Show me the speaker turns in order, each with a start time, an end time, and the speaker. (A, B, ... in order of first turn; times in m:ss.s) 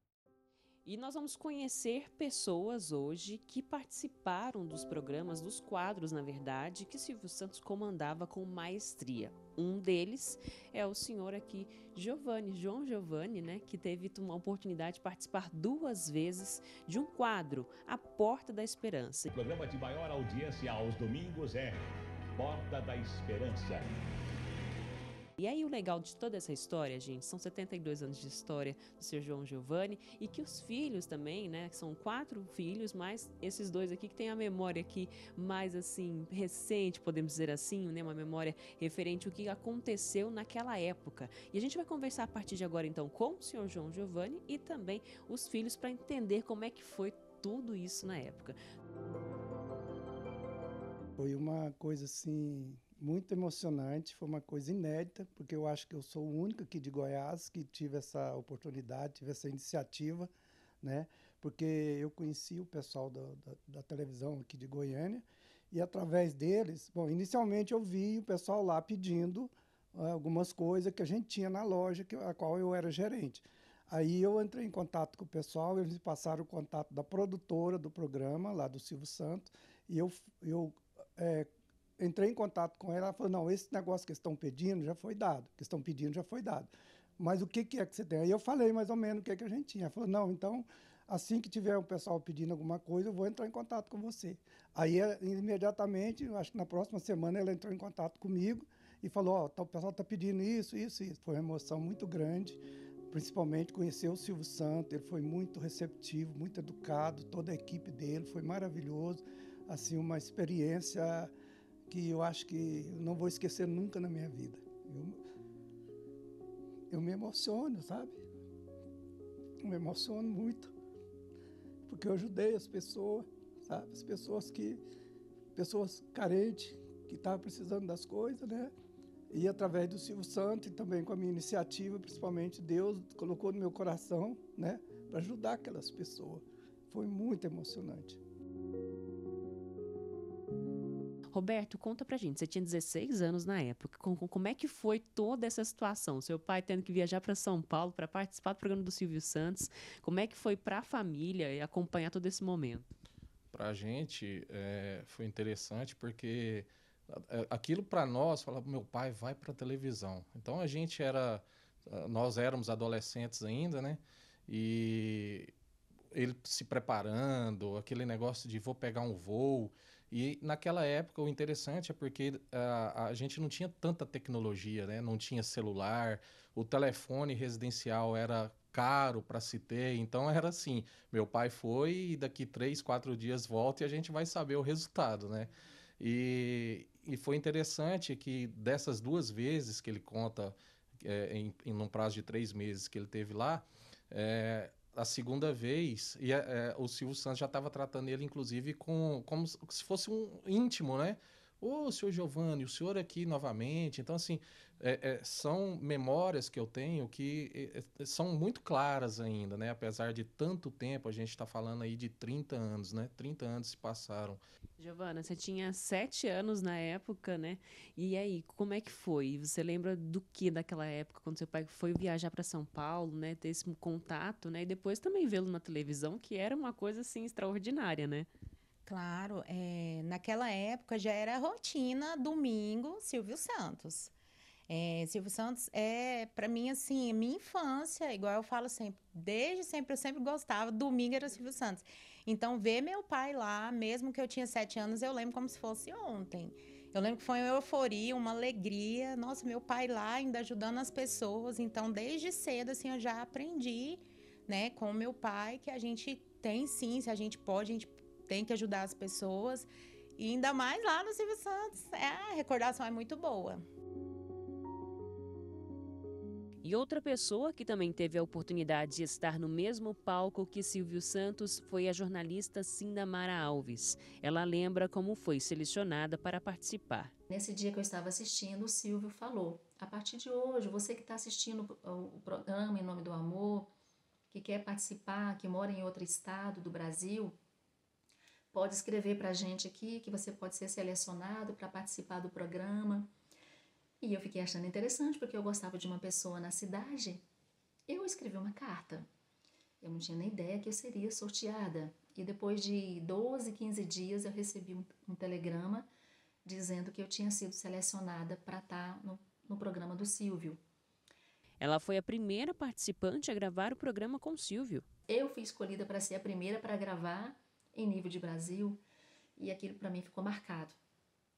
0:00.8-0:19.3 A
0:19.3-0:21.8 B
0:22.4-0:23.9 B
0:25.4-0:48.6 A
0:51.2-1:00.3 C
1:00.8-1:21.5 C
1:22.0-1:51.3 C
1:51.9-1:55.2 C
1:56.9-1:58.2 C
1:59.6-2:00.7 C
2:01.8-2:04.8 C
2:05.5-2:08.7 C
2:09.3-2:18.2 C
2:21.3-2:32.8 A
2:33.5-2:45.5 D
2:46.1-3:34.4 D
3:34.8-3:48.3 A
3:48.8-3:54.1 E
3:54.7-4:23.6 E
4:26.6-4:37.1 A
4:37.3-4:43.7 F
4:44.3-4:47.4 F
4:48.5-4:53.1 F
4:54.0-4:57.2 F
4:57.9-4:59.0 F
4:59.8-5:05.9 F
5:06.4-5:10.6 F
5:11.6-5:14.8 A
5:15.1-5:18.8 F
5:19.4-5:20.8 F